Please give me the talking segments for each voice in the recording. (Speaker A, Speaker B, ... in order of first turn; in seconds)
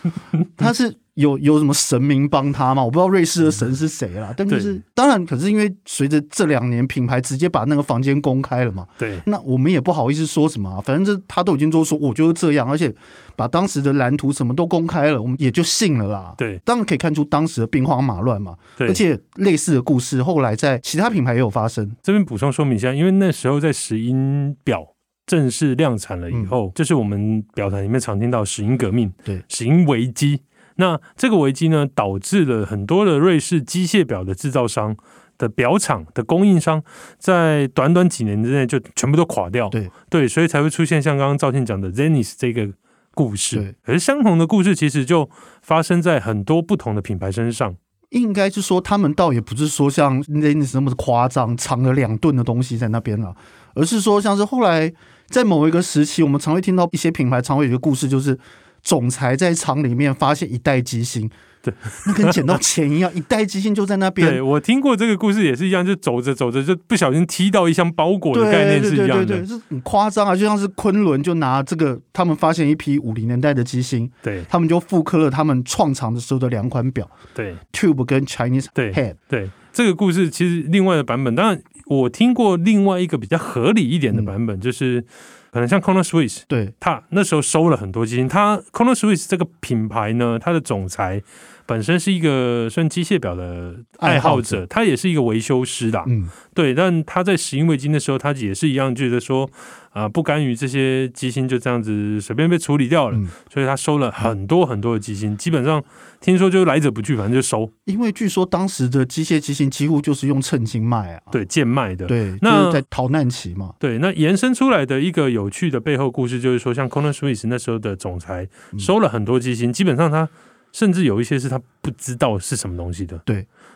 Speaker A: 0.3-0.7, 4.5-4.8, 9.0-9.2, 18.8-19.0, 22.0-47.8, 61.6-62.6, 64.2-69.5, 74.2-74.5, 77.3-77.6, 78.8-107.7, 111.3-112.8, 113.8-123.2
Speaker B: 0.6-22.0, 26.3-26.6, 48.1-61.3, 62.0-64.4, 68.3-77.1, 77.7-79.2, 94.0-94.6, 96.0-96.3, 107.8-111.4, 112.1-113.7